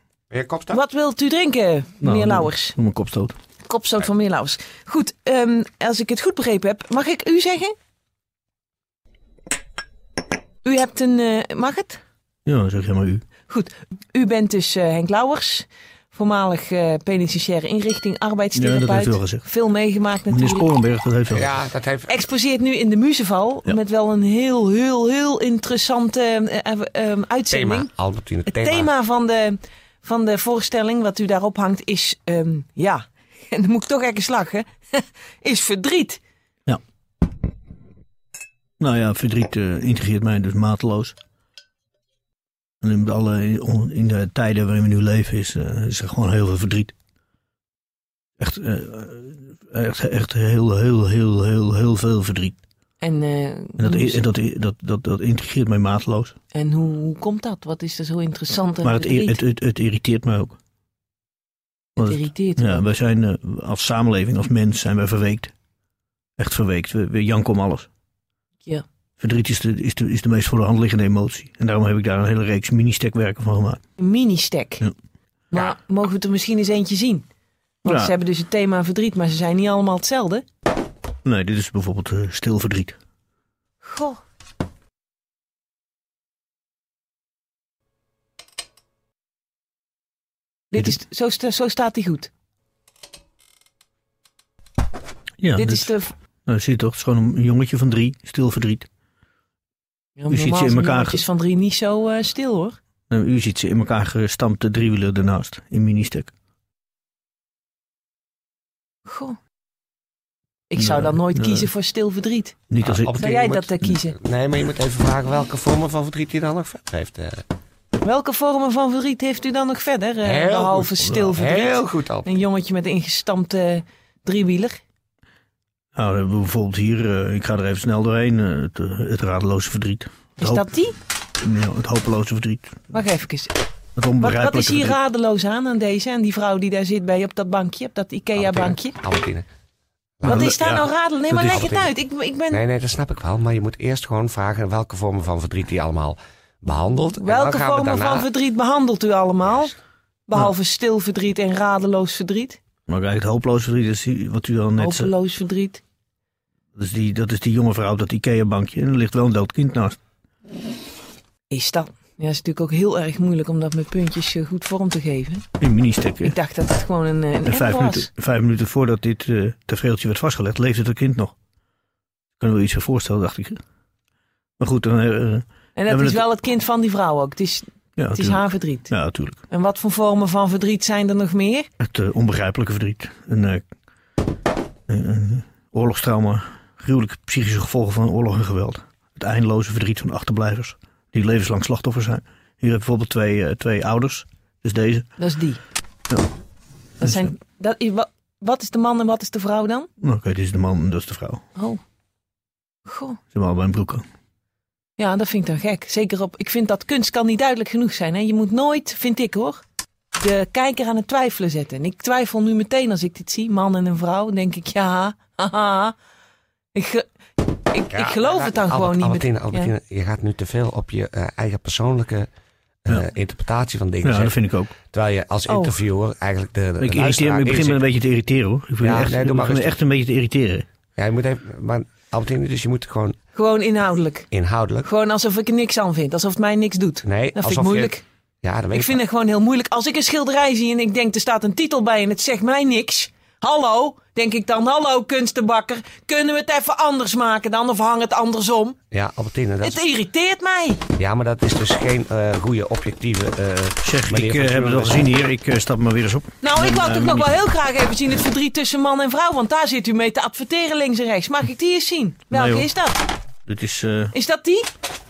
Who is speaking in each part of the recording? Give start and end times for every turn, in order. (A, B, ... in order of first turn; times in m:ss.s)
0:00.3-0:00.8 A
0:00.7-0:02.7 B
0:02.0-0:03.3 C
0:03.6-0:07.7 B
0:10.6-0:12.0 B
0:12.4-0:13.2 C
0:13.5-0:20.7 B
0:18.5-0:19.4 C
0:20.3-0:21.6 C
0:21.3-0:22.2 A
0:22.1-0:27.9 B
0:27.5-0:28.9 A
0:28.5-0:36.2 B
0:38.8-0:41.2 C
0:42.8-0:46.9 C
0:48.4-0:52.6 C
0:53.0-0:54.2 B
0:53.8-0:56.3 C
0:56.5-0:59.4 B
0:58.8-1:00.6 C
1:02.0-1:05.5 C
1:02.0-1:02.8 B
1:06.4-1:07.9 C
1:09.2-1:13.8 C
1:14.0-1:14.9 B
1:15.5-1:17.2 B
1:17.8-1:20.4 B
1:17.8-1:18.1 C
1:21.2-1:23.0 C
1:23.8-1:24.2 B
1:30.7-1:32.3 B
1:35.4-1:35.9 C
1:35.6-1:36.1 B
1:36.4-1:38.9 C
1:40.2-1:42.8 B
1:40.3-1:41.2 C
1:43.1-1:46.3 C
1:49.1-1:49.4 B
1:50.7-1:52.5 B
1:50.8-1:51.7 C
1:52.7-1:53.2 C
1:52.8-1:57.4 A
1:53.2-1:54.1 B
1:58.0-2:04.8 B
2:00.2-2:02.3 A
2:01.0-2:01.4 C
2:05.9-2:10.6 C
2:10.4-2:10.9 B
2:11.4-2:12.9 C
2:12.9-2:13.5 B
2:14.0-2:15.0 C
2:14.2-2:19.0 B
2:18.4-2:19.4 A
2:20.2-2:20.8 A
2:20.2-2:21.7 C
2:20.2-2:22.6 B
2:21.4-2:21.9 A
2:22.5-2:28.3 A
2:27.2-2:29.7 B
2:30.3-2:32.6 B
2:32.9-2:35.1 C
2:34.8-2:35.8 B
2:36.8-2:40.0 C
2:41.5-2:45.4 B
2:45.6-2:46.4 C
2:46.2-2:48.1 B
2:47.4-2:51.3 C
2:52.4-2:53.6 C
2:54.6-2:56.2 C
2:55.8-2:58.9 B
2:58.0-2:59.4 C
2:59.5-3:01.7 B
3:01.8-3:03.6 C
3:04.9-3:15.0 C
3:15.2-3:15.6 B
3:17.0-3:17.3 C
3:17.0-3:19.9 B
3:20.0-3:21.4 C
3:22.9-3:23.2 B
3:23.3-3:24.0 C
3:25.0-3:29.6 B
3:30.2-3:35.9 B
3:36.7-3:39.7 B
3:37.9-3:42.3 A
3:42.8-3:44.4 A
3:44.0-3:44.7 C
3:44.9-3:47.8 A
3:45.5-3:45.8 B
3:46.8-3:50.6 C
3:48.8-3:49.8 A
3:51.0-3:53.2 A
3:53.3-3:54.3 B
3:54.3-3:54.9 A
3:54.8-3:58.0 B
3:57.0-3:59.0 A
3:58.7-4:08.8 B
4:08.9-4:09.8 A
4:09.6-4:10.8 B
4:11.0-4:15.1 A
4:13.8-4:17.3 C
4:16.4-4:23.0 B
4:22.3-4:22.7 C
4:23.4-4:24.1 C
4:24.1-4:24.7 B